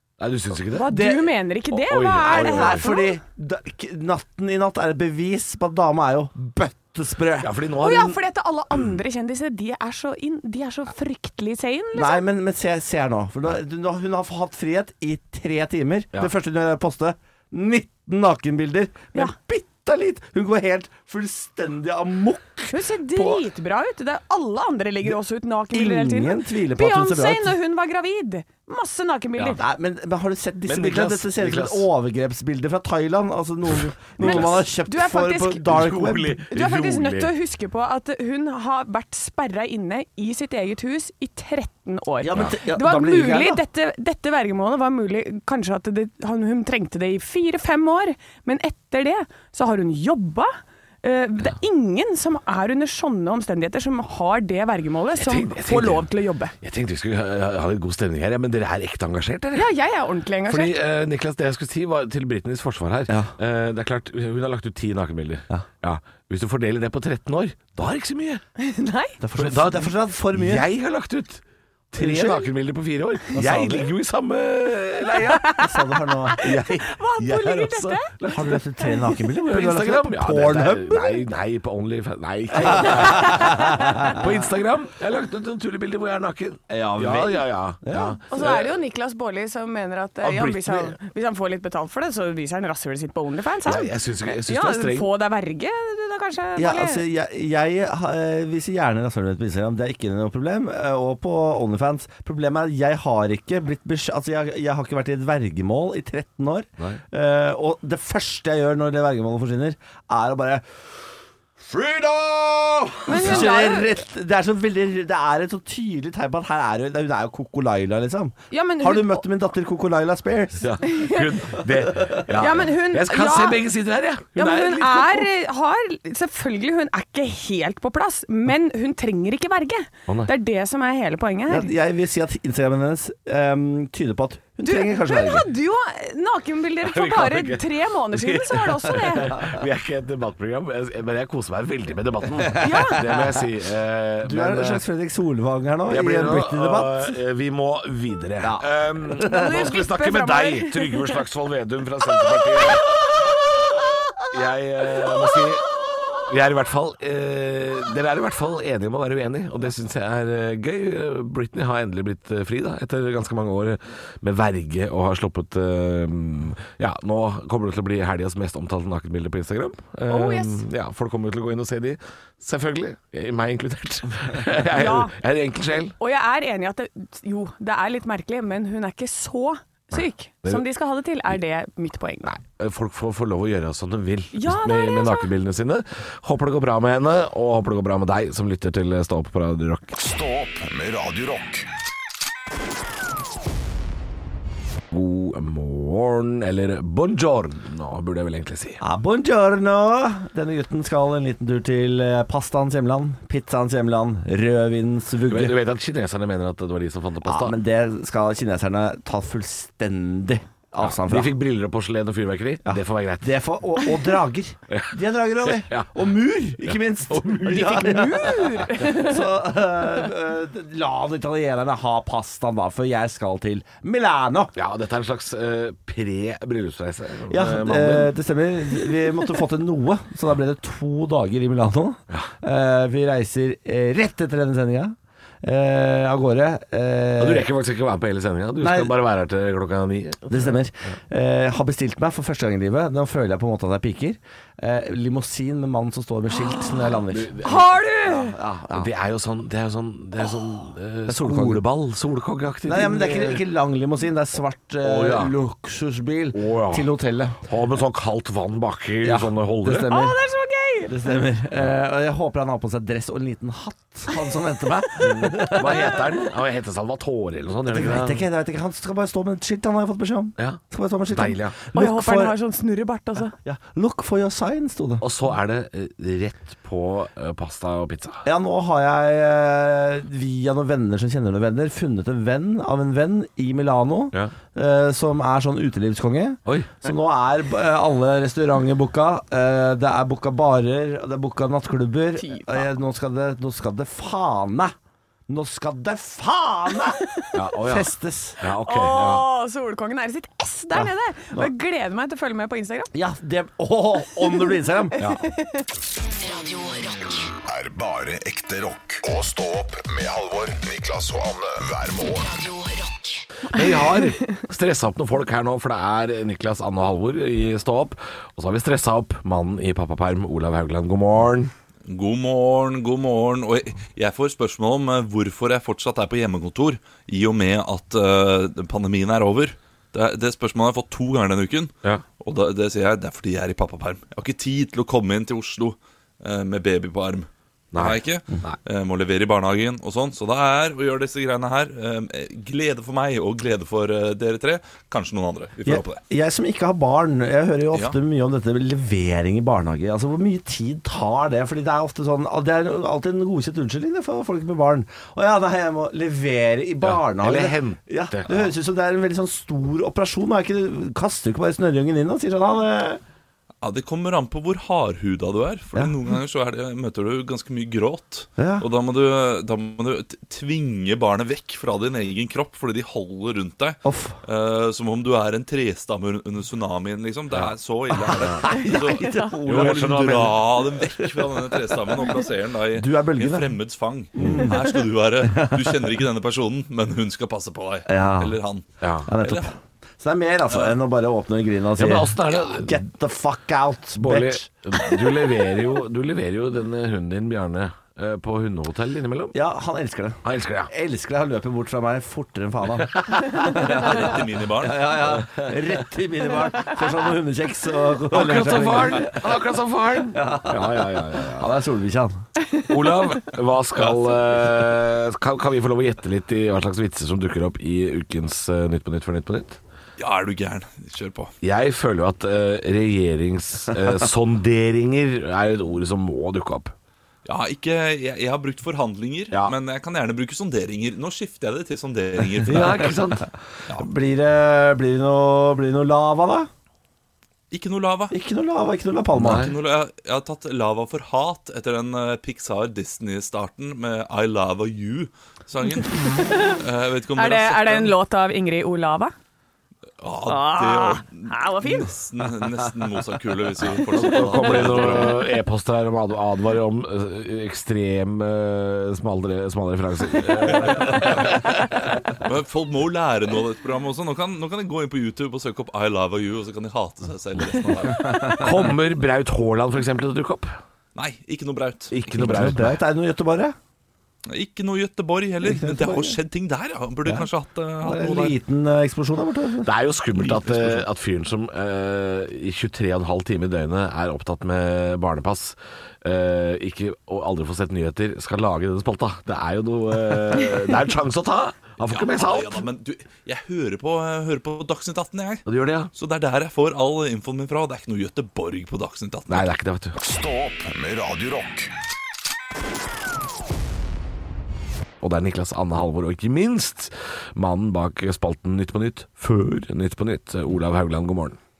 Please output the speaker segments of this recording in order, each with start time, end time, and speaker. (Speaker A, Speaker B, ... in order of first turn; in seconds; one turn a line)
Speaker A: 0.2-1.0
Speaker B: 0.8-3.2
Speaker C: 0.8-1.3
Speaker A: 1.7-2.9
Speaker C: 2.3-7.5
Speaker A: 7.4-8.2
Speaker B: 7.8-12.2
Speaker C: 11.9-23.4
Speaker B: 22.7-29.6
Speaker C: 25.7-27.6
Speaker C: 29.4-36.4
Speaker A: 30.7-31.9
Speaker A: 34.2-34.7
Speaker B: 34.2-35.7
Speaker A: 35.7-37.3
Speaker B: 36.5-56.5
Speaker C: 42.2-43.6
Speaker A: 55.2-56.1
Speaker A: 56.6-59.7
Speaker B: 59.5-60.8
Speaker A: 60.5-68.4
Speaker B: 68.6-69.2
Speaker C: 69.2-70.7
Speaker A: 69.4-75.5
Speaker C: 72.0-72.5
Speaker C: 73.3-73.9
Speaker B: 75.3-75.7
Speaker C: 75.5-76.7
Speaker B: 76.3-79.1
Speaker A: 76.4-78.6
Speaker C: 78.3-81.1
Speaker A: 79.4-88.8
Speaker C: 82.6-84.1
Speaker B: 83.1-84.0
Speaker C: 86.7-88.2
Speaker B: 88.3-93.9
Speaker A: 90.2-91.0
Speaker A: 93.7-95.1
Speaker B: 94.5-97.0
Speaker C: 96.6-110.7
Speaker C: 111.6-120.8
Speaker B: 113.1-113.9
Speaker B: 118.5-119.2
Speaker A: 120.6-125.3
Speaker B: 120.8-121.3
Speaker B: 122.3-123.6
Speaker B: 124.4-131.7
Speaker C: 131.5-135.5
Speaker B: 134.6-139.4
Speaker A: 136.8-144.8
Speaker B: 142.6-143.1
Speaker C: 144.2-147.1
Speaker A: 145.9-152.9
Speaker C: 148.4-148.7
Speaker B: 149.2-151.1
Speaker A: 154.3-155.7
Speaker A: 156.3-176.0
Speaker B: 170.1-170.6
Speaker B: 174.7-175.2
Speaker B: 176.0-182.3
Speaker A: 182.2-190.0
Speaker B: 184.3-185.3
Speaker D: 190.0-191.7
Speaker A: 194.9-198.8
Speaker C: 198.8-205.6
Speaker A: 205.3-207.6
Speaker C: 207.2-211.3
Speaker A: 210.8-213.3
Speaker C: 212.7-224.5
Speaker A: 214.7-215.9
Speaker A: 216.7-217.7
Speaker B: 217.5-219.2
Speaker A: 224.6-228.1
Speaker C: 227.3-237.5
Speaker A: 237.2-240.5
Speaker C: 238.6-239.0
Speaker C: 240.3-247.4
Speaker A: 247.1-247.7
Speaker B: 247.4-248.3
Speaker C: 248.0-248.9
Speaker A: 248.7-253.4
Speaker C: 251.1-251.6
Speaker C: 252.7-257.4
Speaker A: 254.8-255.3
Speaker A: 256.3-256.9
Speaker A: 257.4-259.9
Speaker C: 259.0-260.2
Speaker B: 259.9-260.9
Speaker C: 260.9-266.1
Speaker A: 265.0-268.2
Speaker C: 267.7-272.4
Speaker A: 270.4-271.6
Speaker B: 271.7-273.3
Speaker C: 273.4-275.0
Speaker A: 275.0-278.2
Speaker C: 278.2-294.7
Speaker A: 286.5-286.7
Speaker B: 292.2-292.7
Speaker C: 295.3-297.0
Speaker A: 297.3-299.3
Speaker C: 297.6-298.4
Speaker B: 298.6-302.9
Speaker C: 300.8-301.5
Speaker C: 302.9-304.9
Speaker B: 304.9-305.7
Speaker A: 305.0-305.2
Speaker E: 306.2-307.3
Speaker D: 307.4-312.3
Speaker E: 312.1-313.2
Speaker A: 313.5-321.5
Speaker F: 321.9-346.0
Speaker A: 337.7-338.6
Speaker C: 345.6-363.0
Speaker A: 356.8-358.5
Speaker F: 363.6-388.7
Speaker C: 368.4-368.7
Speaker C: 373.8-374.2
Speaker C: 378.0-382.2
Speaker B: 379.0-379.3
Speaker A: 379.5-380.4
Speaker C: 382.7-383.6
Speaker C: 384.2-386.0
Speaker A: 384.2-384.5
Speaker C: 387.9-388.4
Speaker A: 388.8-389.1
Speaker C: 389.1-394.5
Speaker F: 389.2-389.5
Speaker F: 390.5-390.8
Speaker A: 391.8-392.8
Speaker A: 394.0-399.4
Speaker C: 399.3-409.3
Speaker A: 400.2-400.7
Speaker F: 403.5-404.9
Speaker A: 408.1-411.5
Speaker C: 410.1-412.2
Speaker A: 412.6-419.6
Speaker F: 413.8-414.1
Speaker F: 420.0-421.3
Speaker A: 421.4-426.7
Speaker F: 427.2-432.9
Speaker A: 432.5-433.3
Speaker C: 433.7-436.5
Speaker F: 437.5-438.1
Speaker C: 438.1-439.4
Speaker A: 439.1-439.6
Speaker F: 439.3-447.9
Speaker B: 446.0-446.6
Speaker B: 447.1-449.1
Speaker F: 450.0-455.3
Speaker B: 450.3-451.9
Speaker A: 453.7-461.5
Speaker F: 460.4-468.6
Speaker A: 468.4-470.6
Speaker F: 470.9-472.0
Speaker A: 471.9-472.8
Speaker C: 472.2-473.6
Speaker F: 474.3-478.4
Speaker C: 475.4-476.2
Speaker C: 477.8-479.7
Speaker A: 479.6-492.6
Speaker F: 480.4-480.8
Speaker F: 491.8-499.5
Speaker A: 495.5-495.9
Speaker A: 499.3-500.0
Speaker D: 500.0-501.7
Speaker A: 505.0-511.4